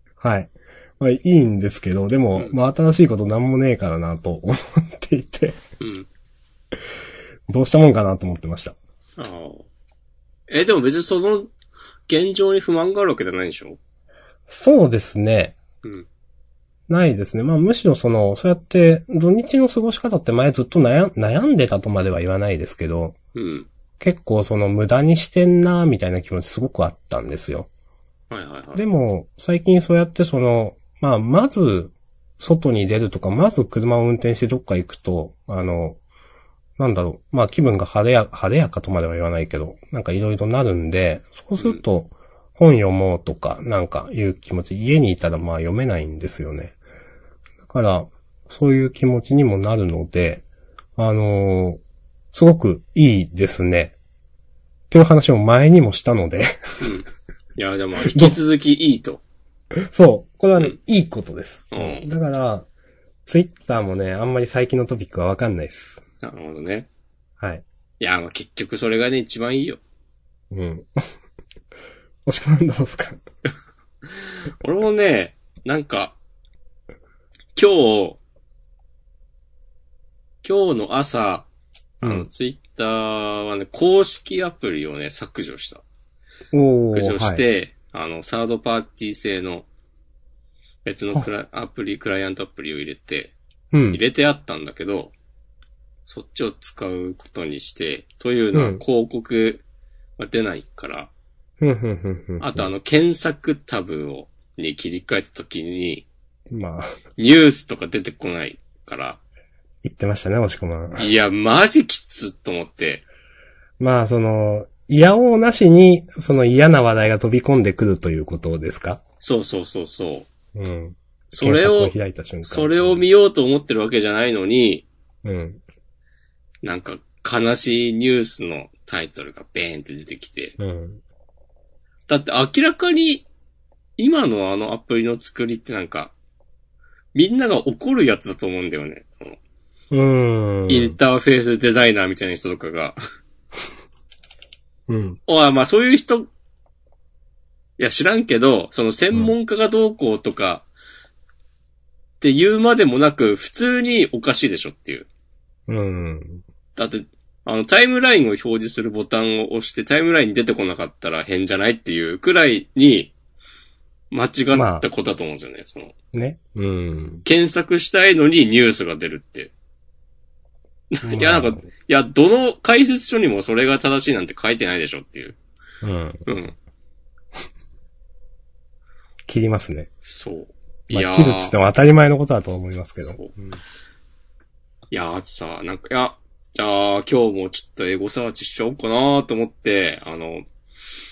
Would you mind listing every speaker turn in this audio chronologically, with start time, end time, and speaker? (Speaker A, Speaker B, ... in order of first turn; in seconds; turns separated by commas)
Speaker A: 0.2-5.6, Speaker B: 5.8-6.1, Speaker A: 7.5-8.8, Speaker B: 9.2-9.7, Speaker B: 10.5-11.5, Speaker B: 12.1-13.8, Speaker A: 14.5-15.6, Speaker A: 16.9-23.2, Speaker B: 23.4-23.7, Speaker A: 24.0-27.7, Speaker B: 28.3-28.8, Speaker A: 28.8-36.0, Speaker A: 36.8-46.8, Speaker A: 47.6-50.4, Speaker A: 51.0-51.8, Speaker A: 52.3-54.0, Speaker A: 54.9-56.8, Speaker B: 56.8-59.2, Speaker A: 58.1-58.4, Speaker A: 59.8-62.7, Speaker B: 61.7-62.1, Speaker A: 63.3-66.0, Speaker B: 66.2-66.9, Speaker B: 68.0-69.8, Speaker A: 70.5-71.1, Speaker A: 72.3-73.2, Speaker B: 74.1-76.2, Speaker B: 77.6-78.2, Speaker B: 80.4-81.5, Speaker A: 82.0-82.3, Speaker B: 82.0-85.8, Speaker A: 86.5-87.4, Speaker B: 86.9-89.7, Speaker B: 90.8-93.3, Speaker A: 93.7-94.0, Speaker B: 93.9-95.1, Speaker B: 96.1-99.6, Speaker A: 98.5-98.8, Speaker B: 100.2-101.1, Speaker A: 101.6-102.7, Speaker B: 102.4-106.1, Speaker A: 106.5-107.0, Speaker B: 107.2-109.2, Speaker A: 109.8-111.1, Speaker B: 111.0-113.0, Speaker A: 113.8-119.0, Speaker B: 119.2-120.3, Speaker A: 120.5-123.0, Speaker B: 121.3-124.8, Speaker A: 125.2-125.6, Speaker B: 126.6-130.6, Speaker A: 130.6-131.0, Speaker B: 132.1-133.3, Speaker B: 134.0-136.1, Speaker B: 137.1-139.4, Speaker A: 139.9-141.0, Speaker B: 140.7-143.0, Speaker A: 144.9-145.2, Speaker B: 145.3-146.3, Speaker B: 147.8-150.7, Speaker B: 152.2-155.1, Speaker A: 155.7-156.4, Speaker B: 156.8-163.1, Speaker B: 164.1-165.9, Speaker A: 164.5-164.9, Speaker A: 166.1-167.2, Speaker B: 167.2-169.5, Speaker B: 170.9-175.4, Speaker A: 171.1-171.7, Speaker A: 175.8-176.3, Speaker B: 176.3-176.6, Speaker A: 179.3-179.9, Speaker B: 180.1-181.6, Speaker A: 180.9-183.4, Speaker B: 183.0-183.3, Speaker B: 184.9-190.5